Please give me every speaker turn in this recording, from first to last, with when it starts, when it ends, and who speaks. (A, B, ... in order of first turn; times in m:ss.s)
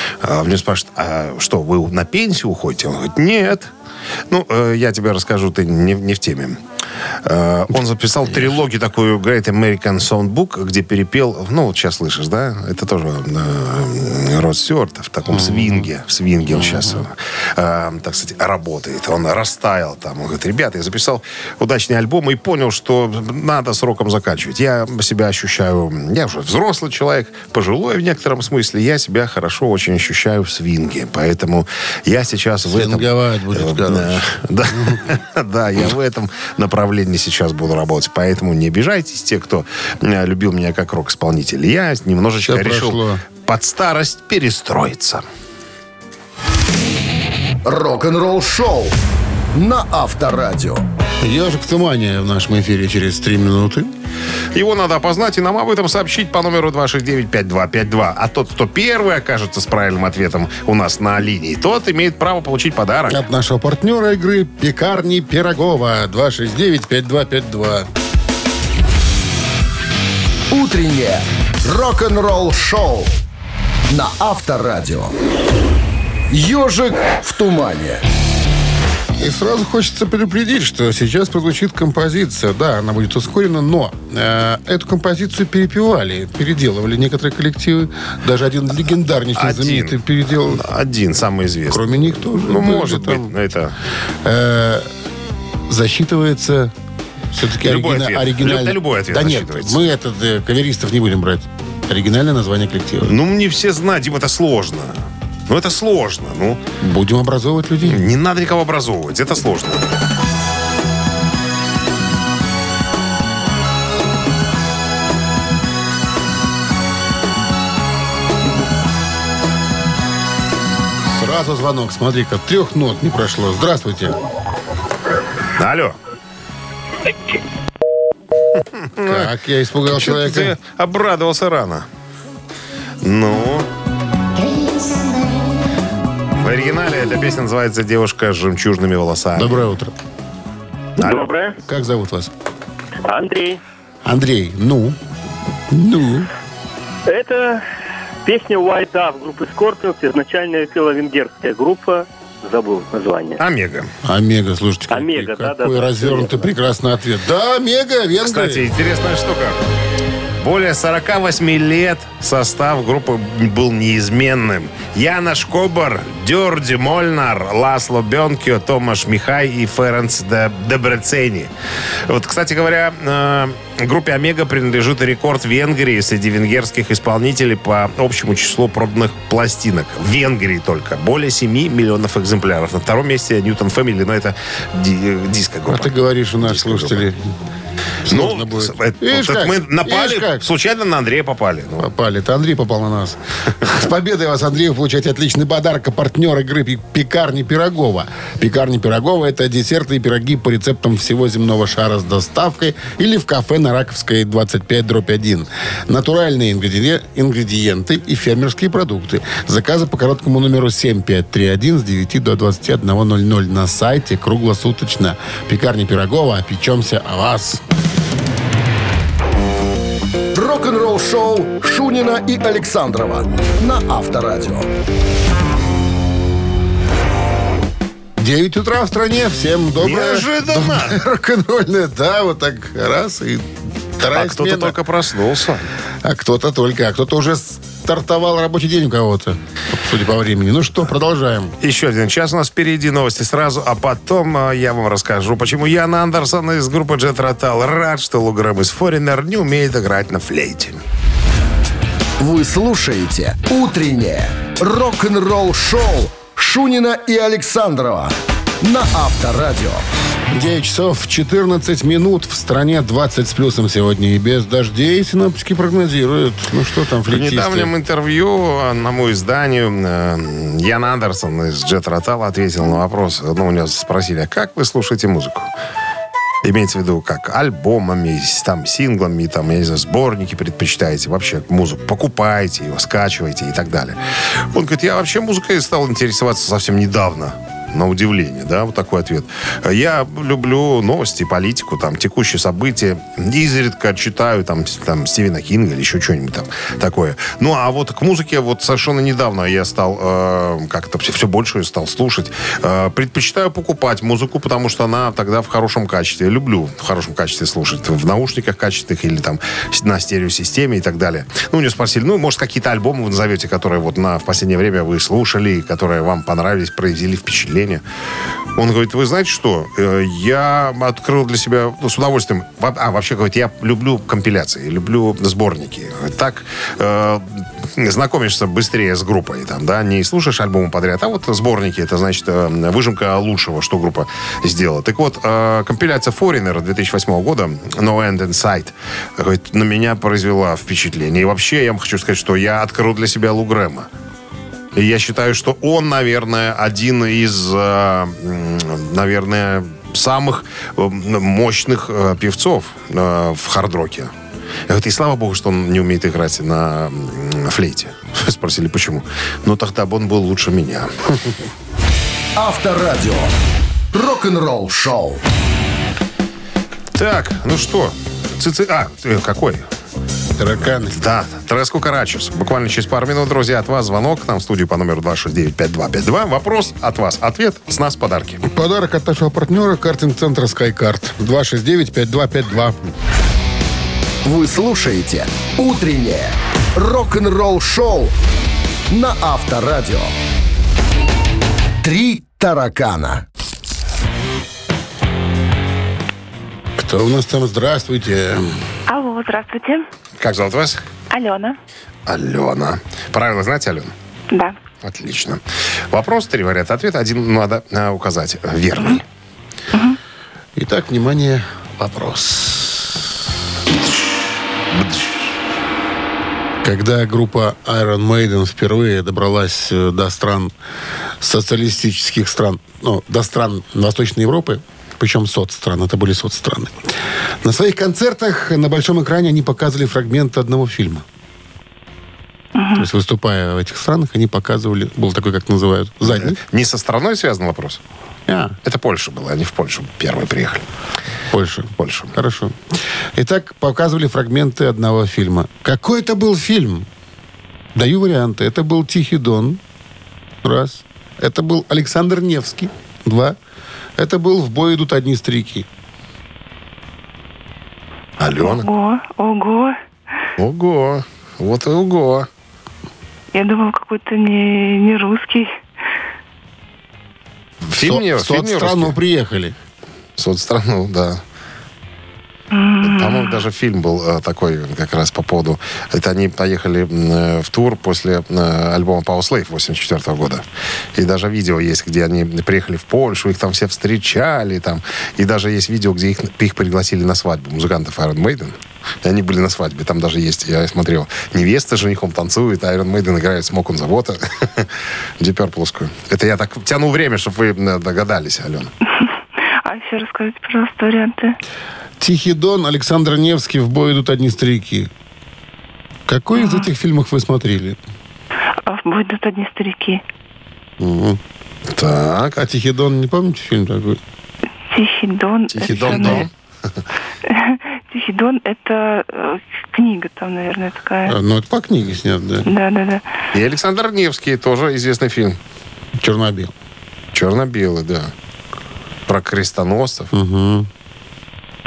0:00.2-0:03.7 A
0:04.3-0:06.6 A
0:07.2-0:33.0 A
0:15.3-0:15.9 B
0:16.5-0:17.0 B
0:32.6-0:35.0 B
0:33.6-0:45.2 A
0:42.4-0:43.2 B
0:47.6-0:49.0 C
0:49.5-0:50.8 C
0:51.2-0:53.9 B
0:54.5-1:03.2 A
1:03.1-1:07.9 B
1:10.5-1:13.2 C
1:13.9-1:15.1 C
1:16.3-1:18.0 C
1:19.2-1:30.6 B
1:29.4-1:30.0 A
1:30.5-1:33.7 A
1:31.7-1:33.3 B
1:34.2-1:34.9 B
1:35.7-1:36.7 B
1:37.3-1:43.2 B
1:37.7-1:39.8 A
1:43.1-1:44.9 A
1:45.5-1:46.6 A
1:46.8-1:48.1 B
1:47.9-1:49.8 A
2:01.1-2:04.2 B
2:05.6-2:06.0 A
2:09.0-2:09.3 A
2:09.0-2:10.6 B
2:09.9-2:11.9 A
2:13.0-2:13.7 A
2:16.4-2:19.6 A
2:19.4-2:19.9 B
2:21.0-2:21.6 D
2:21.0-2:21.3 A
2:21.7-2:22.3 B
2:23.0-2:23.6 D
2:24.0-2:25.0 B
2:25.7-2:26.3 B
2:27.1-2:27.6 D
2:28.2-2:33.4 D
2:33.4-2:33.9 A
2:34.0-2:38.7 B
2:34.9-2:36.5 D
2:38.2-2:39.6 A
2:40.4-2:51.5 A
2:52.1-3:05.9 A
3:05.7-3:07.3 B
3:06.4-3:07.0 A
3:08.1-3:10.4 B
3:08.1-3:11.9 A
3:11.8-3:37.6 B
3:40.3-3:44.7 C
3:48.2-3:54.8 B
3:49.8-3:51.0 A
3:54.1-3:55.6 A
3:56.0-4:01.6 B
4:01.6-4:10.8 A
4:12.2-4:19.9 C
4:20.3-4:27.7 B
4:27.1-4:35.5 A
4:36.4-4:44.0 A
4:44.5-5:17.8 A
5:18.6-5:27.2 A
5:27.8-5:43.9 A
5:44.8-5:54.1 A
5:54.7-6:00.9 A
6:02.4-6:03.3 C
6:03.9-6:05.2 C
6:07.0-6:09.6 A
6:10.4-6:11.0 B
6:11.0-6:18.4 A
6:18.4-6:22.8 B
6:24.2-6:28.2 C
6:28.9-6:30.1 C
6:31.8-6:33.2 C
6:36.8-6:38.6 B
6:38.9-6:39.8 E
6:40.2-6:40.8 A
6:41.1-6:41.6 E
6:42.1-6:43.9 A
6:44.3-6:44.6 E
6:44.8-6:45.4 A
6:45.9-6:49.0 A
6:49.7-6:50.0 E
6:50.6-6:52.7 B
6:56.6-7:00.5 B
7:01.2-7:06.8 B
7:07.4-7:11.0 B
7:12.6-7:12.8 E
7:12.8-7:16.4 B
7:16.2-7:17.8 A
7:18.3-7:18.6 B
7:18.7-7:20.6 A
7:21.3-7:22.6 B
7:21.8-7:22.1 A
7:23.1-7:26.9 B
7:27.8-7:29.6 B
7:30.4-7:33.4 B
7:34.0-7:35.7 B
7:38.2-7:38.6 A
7:38.3-7:39.8 E
7:40.4-7:42.3 A
7:43.3-7:45.6 E
7:47.7-7:48.9 A
7:47.8-7:49.6 B
7:50.2-7:51.2 A
7:52.5-7:53.4 E
7:52.8-8:00.4 A
8:01.0-8:08.5 A
8:09.0-8:14.2 A
8:15.2-8:18.7 A
8:19.0-8:21.4 E
8:22.0-8:24.9 B
8:26.1-8:27.8 B
8:26.3-8:26.7 E
8:28.7-8:30.0 E
8:30.8-8:31.2 B
8:31.8-8:32.4 A
8:32.4-8:34.0 B
8:34.7-8:36.3 E
8:35.6-8:36.3 A
8:35.6-8:36.3 B
8:37.3-8:41.2 E
8:41.1-8:42.5 B
8:42.5-8:43.1 E
8:43.4-8:45.4 A
8:46.0-8:46.5 B
8:47.2-8:48.1 A
8:49.1-8:50.1 A
8:50.1-8:50.7 B